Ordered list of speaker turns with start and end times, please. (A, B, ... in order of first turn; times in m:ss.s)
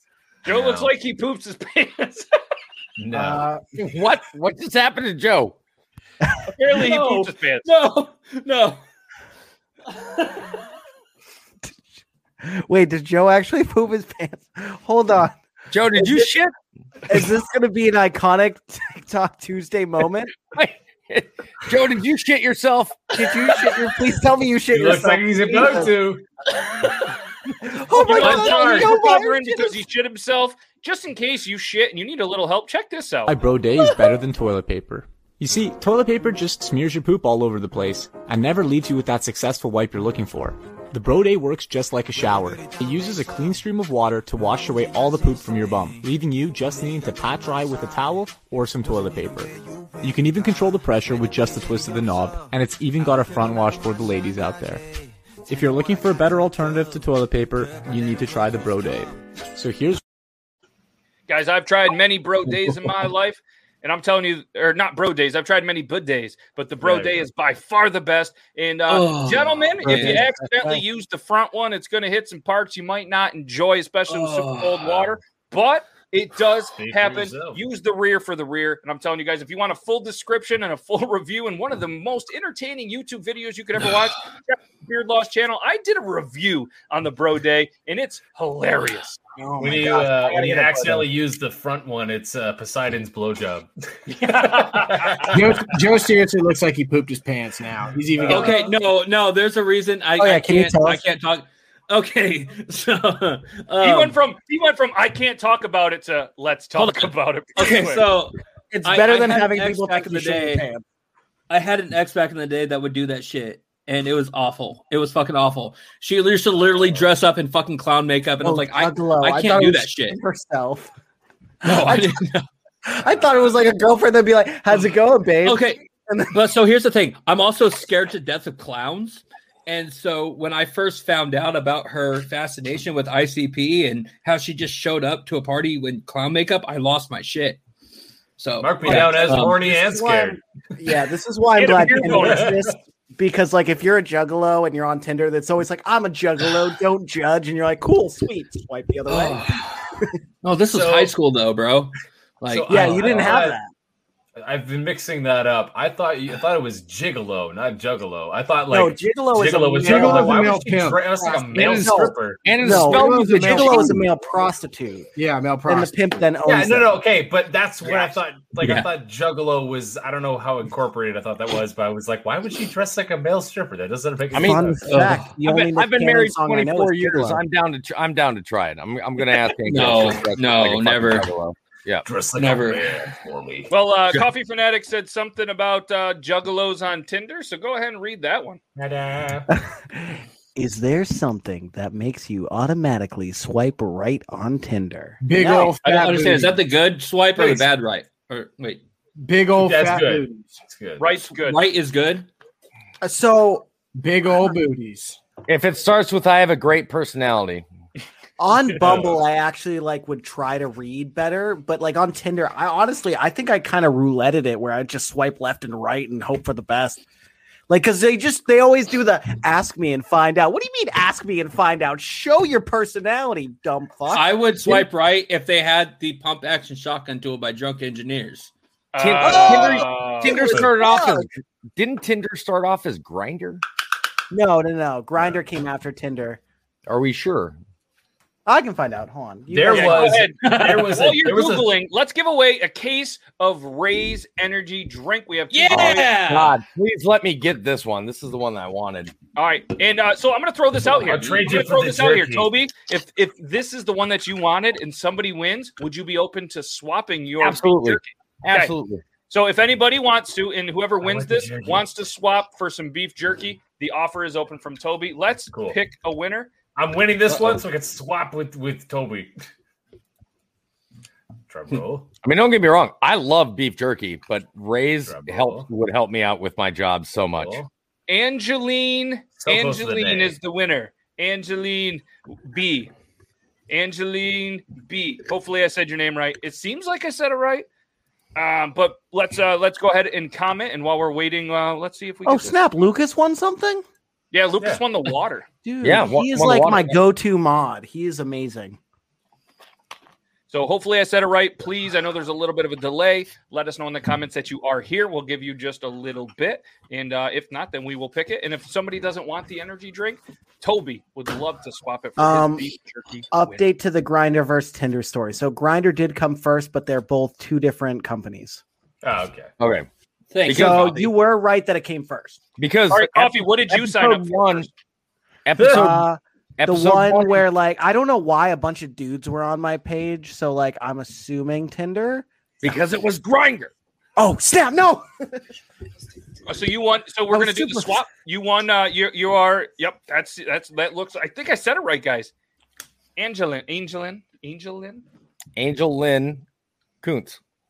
0:00.4-0:02.3 A
0:00.4-0:00.9 B
0:03.0-0:03.5 B
0:03.1-0:03.6 C
0:03.8-0:05.6 D
0:06.5-0:07.7 A
0:06.8-0:08.8 E
0:12.4-0:15.4 C
0:15.7-0:16.5 D
0:15.9-0:16.3 C
0:17.1-0:20.3 C
0:20.5-0:23.2 D
0:23.1-0:25.9 C
0:24.7-0:26.2 B
0:27.6-0:29.7 C
0:28.0-0:29.2 B
0:28.0-0:33.4 A
0:33.2-0:54.8 F
0:55.5-1:00.0 F
1:01.3-1:29.2 A
1:06.8-1:07.2 B
1:08.9-1:10.3 E
1:09.8-1:10.8 C
1:14.1-1:14.9 E
1:16.8-1:17.6 B
1:29.4-1:31.1 C
1:29.6-1:35.7 B
1:35.3-1:38.7 G
1:38.3-1:44.2 E
1:40.2-1:41.0 C
1:43.8-1:48.1 A
1:46.7-1:50.6 E
1:48.7-1:50.8 C
1:51.5-2:00.2 E
1:58.4-2:00.9 C
2:01.6-2:02.4 E
2:01.7-2:02.2 C
2:02.8-2:06.3 C
2:05.4-2:17.6 E
2:18.4-2:19.6 E
2:18.6-2:20.4 B
2:18.8-2:30.1 C
2:21.6-2:22.5 A
2:22.0-2:22.7 B
2:29.1-2:29.8 E
2:30.4-2:33.4 E
2:30.7-2:31.1 B
2:32.5-2:33.6 B
2:32.7-2:33.7 C
2:34.4-2:42.4 B
2:38.7-2:40.6 C
2:39.8-2:41.9 G
2:41.3-2:45.1 C
2:41.5-2:41.8 D
2:42.4-2:44.0 D
2:42.6-2:44.1 G
2:45.2-2:46.0 G
2:45.6-2:47.0 C
2:46.4-2:55.2 B
2:48.6-2:48.9 E
2:54.3-2:57.4 C
2:54.3-3:02.0 D
2:59.6-3:01.3 E
3:02.0-3:03.7 B
3:02.4-3:02.9 E
3:03.7-3:08.6 A
3:08.8-3:09.5 B
3:09.5-3:15.8 C
3:15.2-3:16.6 G
3:15.8-3:18.8 E
3:19.2-3:20.6 G
3:19.6-3:21.1 B
3:21.0-3:21.6 A
3:21.4-3:22.3 E
3:23.0-3:23.6 C
3:23.9-3:25.2 G
3:25.5-3:27.6 D
3:28.4-3:37.0 C
3:28.8-3:29.2 B
3:37.7-3:44.9 C
3:44.1-3:48.5 E
3:48.9-3:50.5 A
3:49.0-3:53.6 D
3:49.2-3:51.3 C
3:54.3-3:56.4 C
3:56.9-3:57.6 D
3:58.4-4:00.2 C
3:59.5-4:01.7 B
3:59.7-4:06.1 A
4:00.4-4:00.9 E
4:05.5-4:06.6 E
4:05.7-4:09.1 D
4:09.4-4:18.7 A
4:11.0-4:12.5 B
4:11.0-4:11.4 D
4:17.4-4:19.0 D
4:19.3-4:26.5 A
4:21.0-4:21.9 B
4:25.5-4:25.8 B
4:26.8-4:29.3 B
4:27.3-4:27.6 D
4:31.5-4:32.1 B
4:32.2-4:37.6 D
4:35.0-4:35.7 B
4:37.4-4:37.7 B
4:38.1-4:42.9 A
4:39.4-4:40.4 B
4:43.7-4:47.6 A
4:48.4-4:52.6 A
4:52.2-4:53.8 C
4:54.3-4:55.4 A
4:55.6-4:58.8 C
4:55.8-4:57.0 D
5:00.5-5:13.6 A
5:12.2-5:12.7 C
5:13.3-5:18.6 C
5:19.0-5:19.5 B
5:19.6-5:19.8 D
5:20.3-5:21.1 E
5:20.4-5:21.0 D
5:20.5-5:22.4 C
5:22.6-5:24.7 D
5:22.9-5:24.7 A
5:25.4-5:27.4 D
5:25.5-5:26.0 B
5:25.6-5:32.2 C
5:32.6-5:33.7 D
5:34.2-5:35.3 C
5:36.4-5:42.3 A
5:37.3-5:38.0 C
5:43.2-5:45.0 A
5:45.6-5:46.4 D
5:47.0-5:47.4 D